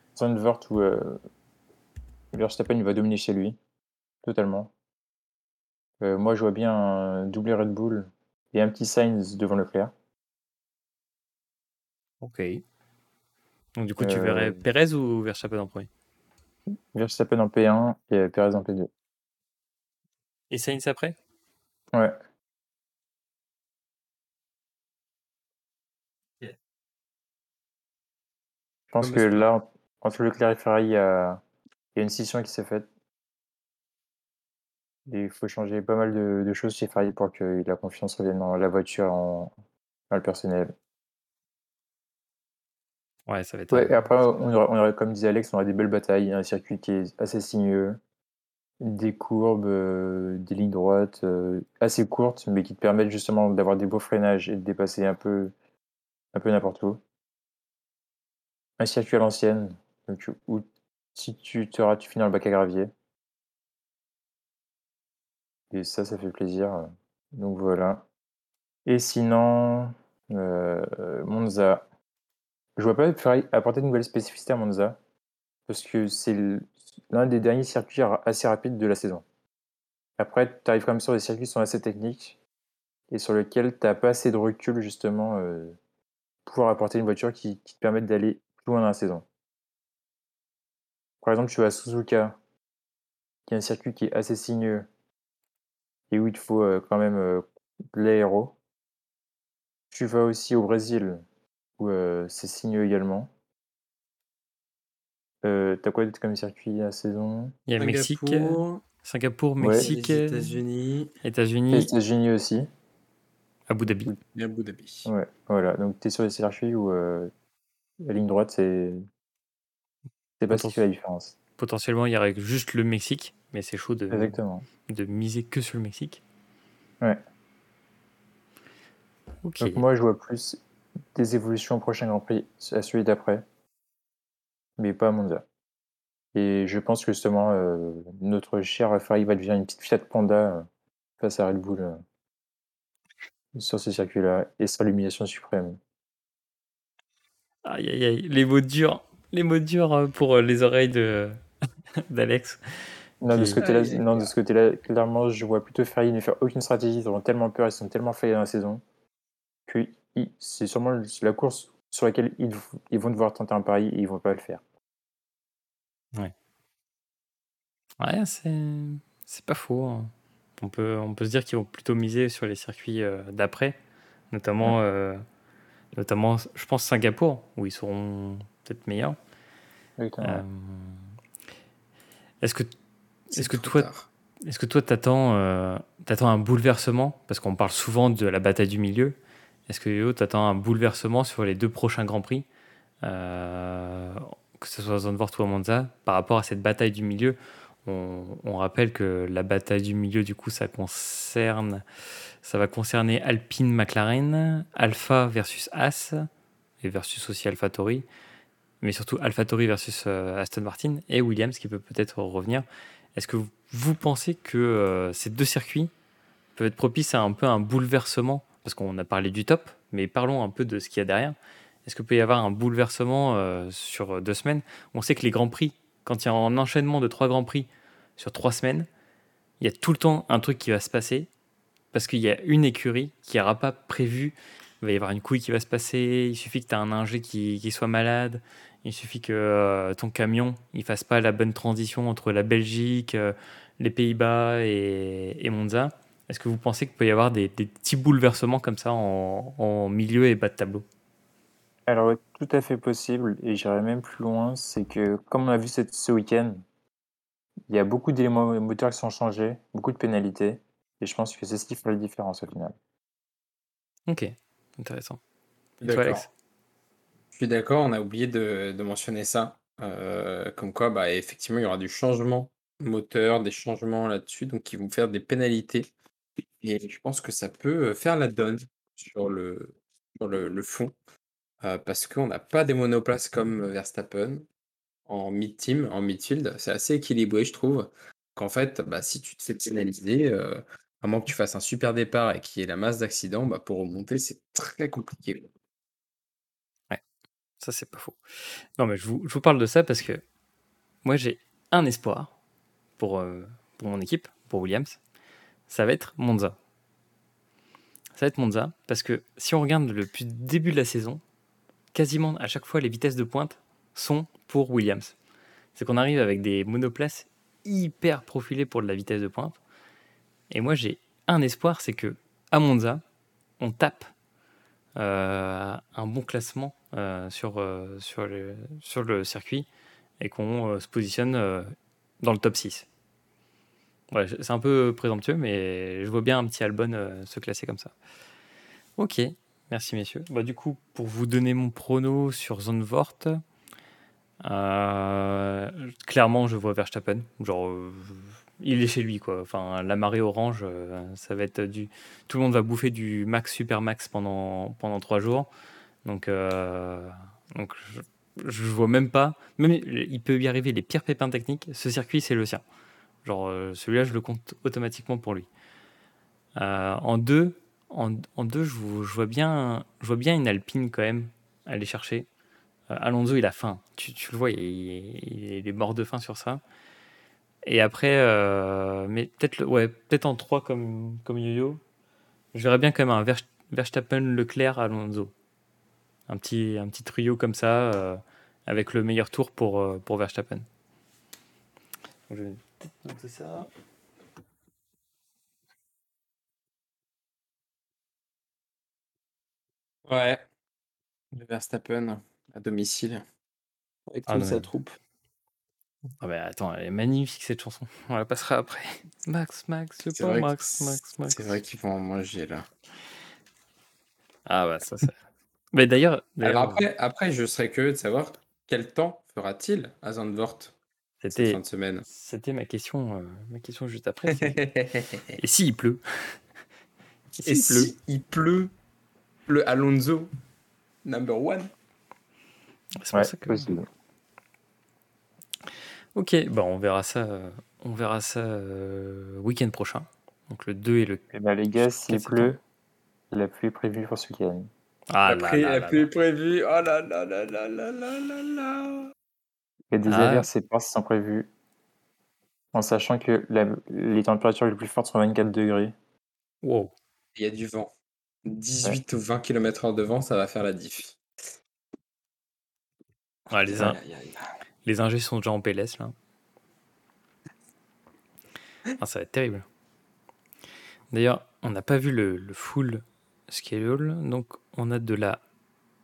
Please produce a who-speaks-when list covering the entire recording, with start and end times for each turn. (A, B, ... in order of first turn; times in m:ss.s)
0:00.2-0:01.2 A
0:02.3-0:03.6 A
0:04.2-0:04.7 A
0:06.0-0:09.9 A
0:12.2-0:12.6 B
0:13.8-0:15.9 B
0:14.0-0:14.6 A
0:16.9-0:18.9 A
0:20.5-0:21.2 B
0:28.9-0:31.4 A
0:29.0-0:29.4 C
0:32.0-0:32.9 A
0:35.1-0:39.5 A
0:40.1-0:40.7 A
0:43.3-0:44.1 B
0:43.7-0:48.0 A
0:48.8-0:55.6 A
0:56.3-0:57.0 A
0:58.8-1:02.9 A
1:05.7-1:08.1 A
1:08.9-1:11.8 A
1:12.8-1:15.0 A
1:15.7-1:19.2 A
1:20.2-1:22.4 A
1:23.1-1:25.8 A
1:26.5-1:29.3 A
1:31.2-1:32.4 A
1:33.5-1:34.9 A
1:36.1-1:38.6 A
1:39.9-1:41.2 A
1:41.8-1:43.3 A
1:45.4-1:47.6 A
1:47.7-1:50.6 B
1:47.8-1:48.8 C
1:49.6-1:49.9 A
1:49.7-1:51.1 C
1:51.2-1:51.9 B
1:51.7-1:52.7 A
1:53.7-1:54.1 B
1:54.2-1:55.1 C
1:55.1-1:57.3 A
1:58.0-1:59.0 A
2:00.4-2:01.4 A
2:00.5-2:00.8 B
2:01.6-2:04.4 B
2:04.1-2:04.7 A
2:04.9-2:06.2 B
2:09.4-2:09.8 B
2:09.6-2:10.6 A
2:11.1-2:13.4 A
2:14.8-2:15.4 A
2:16.4-2:20.7 A
2:21.2-2:22.0 A
2:23.6-2:25.8 A
2:27.6-2:31.4 B
2:32.1-2:33.6 B
2:33.2-2:38.8 A
2:33.6-2:34.3 C
2:39.7-2:44.6 A
2:48.0-2:53.8 B
2:54.3-2:55.2 B
2:55.9-2:59.2 B
3:00.0-3:00.4 A
3:00.2-3:01.0 B
3:02.4-3:02.7 B
3:03.3-3:03.9 B
3:03.3-3:04.1 C
3:04.4-3:09.2 B
3:09.7-3:12.4 B
3:13.0-3:21.8 B
3:22.4-3:26.3 B
3:26.8-3:28.1 B
3:28.8-3:35.9 B
3:36.6-3:48.9 B
3:49.6-3:51.3 B
3:51.9-4:10.8 B
4:11.9-4:16.6 A
4:17.7-4:22.8 A
4:24.1-4:25.2 B
4:25.8-4:26.3 C
4:25.8-4:26.3 B
4:27.3-4:35.9 C
4:36.6-4:40.9 C
4:41.6-4:44.4 C
4:45.1-4:55.5 C
4:57.6-4:58.2 B
4:58.8-5:00.2 B
5:01.0-5:02.3 B
5:03.0-5:05.0 B
5:05.7-5:06.6 B
5:08.2-5:11.2 B
5:11.9-5:15.2 B
5:15.8-5:19.6 B
5:20.5-5:23.0 B
5:23.6-5:24.1 B
5:25.0-5:29.7 B
5:30.2-5:32.9 B
5:34.1-5:37.9 B
5:39.0-5:43.4 B
5:44.4-5:55.5 B
5:56.0-6:02.6 B
6:03.2-6:05.5 B
6:06.6-6:12.3 B
6:12.9-6:16.6 B
6:17.7-6:21.8 B
6:22.5-6:25.3 B
6:26.3-6:30.7 B
6:32.3-6:33.7 B
6:40.1-6:40.4 C
6:41.3-6:43.2 C
6:44.1-6:45.0 C
6:44.3-6:44.7 B
6:46.2-6:51.6 B
6:50.1-6:52.7 C
6:54.5-6:55.2 B
6:55.7-6:56.8 B
6:56.4-7:00.8 C
7:01.2-7:04.6 B
7:01.3-7:02.0 C
7:04.3-7:05.3 C
7:05.4-7:06.4 B
7:07.4-7:07.9 B
7:07.4-7:08.7 C
7:09.5-7:10.3 C
7:11.0-7:11.7 C
7:13.0-7:13.7 B
7:13.1-7:13.9 A
7:16.2-7:22.6 B
7:21.3-7:22.6 A
7:23.3-7:24.7 A
7:25.1-7:26.1 B
7:25.3-7:29.1 C
7:29.9-7:31.5 A
7:30.1-7:30.5 B
7:32.7-7:35.9 A
7:36.6-7:36.9 B
7:37.4-7:37.9 C
7:38.4-7:41.2 C
7:43.5-7:44.0 B
7:43.7-7:44.5 C
7:44.8-7:46.1 B
7:49.0-7:49.6 B
7:51.1-7:55.4 B